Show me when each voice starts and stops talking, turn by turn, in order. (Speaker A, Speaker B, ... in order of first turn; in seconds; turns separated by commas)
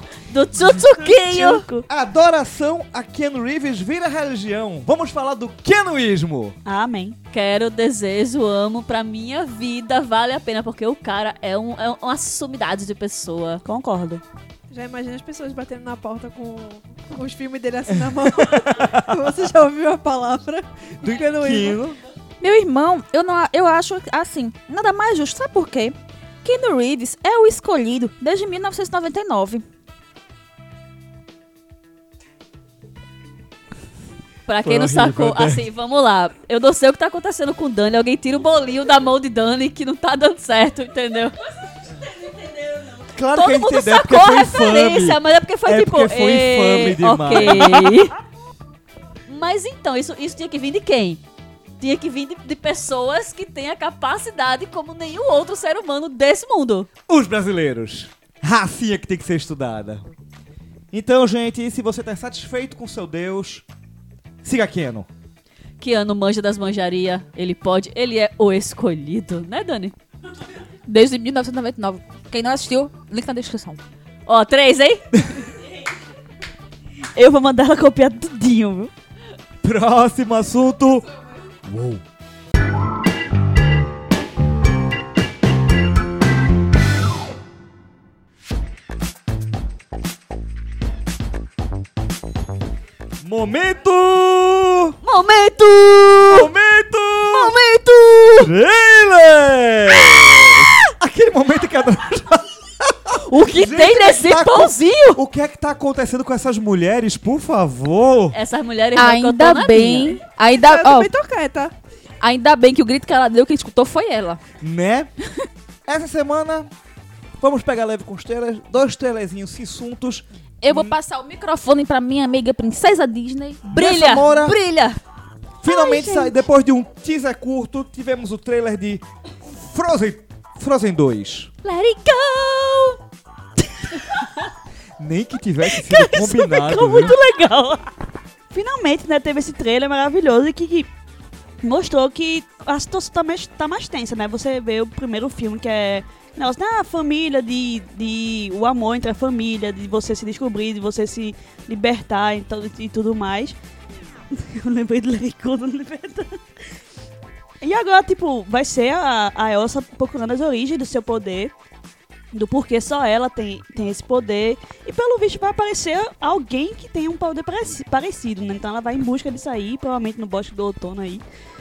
Speaker A: 0.3-1.7, Speaker B: 1.0-1.9, Speaker C: 1.9-6.6, Speaker B: 6.7-7.2, Speaker A: 7.3-13.6, Speaker B: 13.6-14.2, Speaker D: 14.7-21.8, Speaker C: 17.9-19.1, Speaker C: 21.0-22.0, Speaker E: 22.4-29.6, Speaker A: 34.5-41.3, Speaker C: 34.6-35.6, Speaker C: 43.1-48.0, Speaker A: 43.3-48.1, Speaker A: 49.3-51.2, Speaker A: 51.8-56.9, Speaker C: 57.1-60.0, Speaker C: 60.9-63.6, Speaker C: 64.4-65.1, Speaker A: 65.8-70.0, Speaker E: 70.9-73.8, Speaker A: 74.3-75.1, Speaker B: 77.2-78.9, Speaker C: 79.6-81.1, Speaker C: 81.6-82.0, Speaker C: 93.2-95.0, Speaker A: 95.0-96.5, Speaker C: 96.3-97.6, Speaker A: 97.3-98.5, Speaker C: 98.4-108.4, Speaker A: 103.3-105.2, Speaker A: 108.3-110.2, Speaker E: 109.0-111.1, Speaker D: 110.6-111.7, Speaker E: 112.2-114.4, Speaker C: 114.6-115.1, Speaker C: 115.9-116.7, Speaker C: 117.4-120.9, Speaker E: 120.6-123.7, Speaker C: 123.7-124.6, Speaker A: 123.7-125.0, Speaker C: 125.6-131.5, Speaker A: 125.7-126.3, Speaker A: 131.6-133.0, Speaker C: 135.0-137.2, Speaker B: 135.8-137.9, Speaker B: 138.5-140.9, Speaker B: 141.6-153.6, Speaker B: 154.3-156.4, Speaker B: 157.6-161.5, Speaker B: 162.3-171.2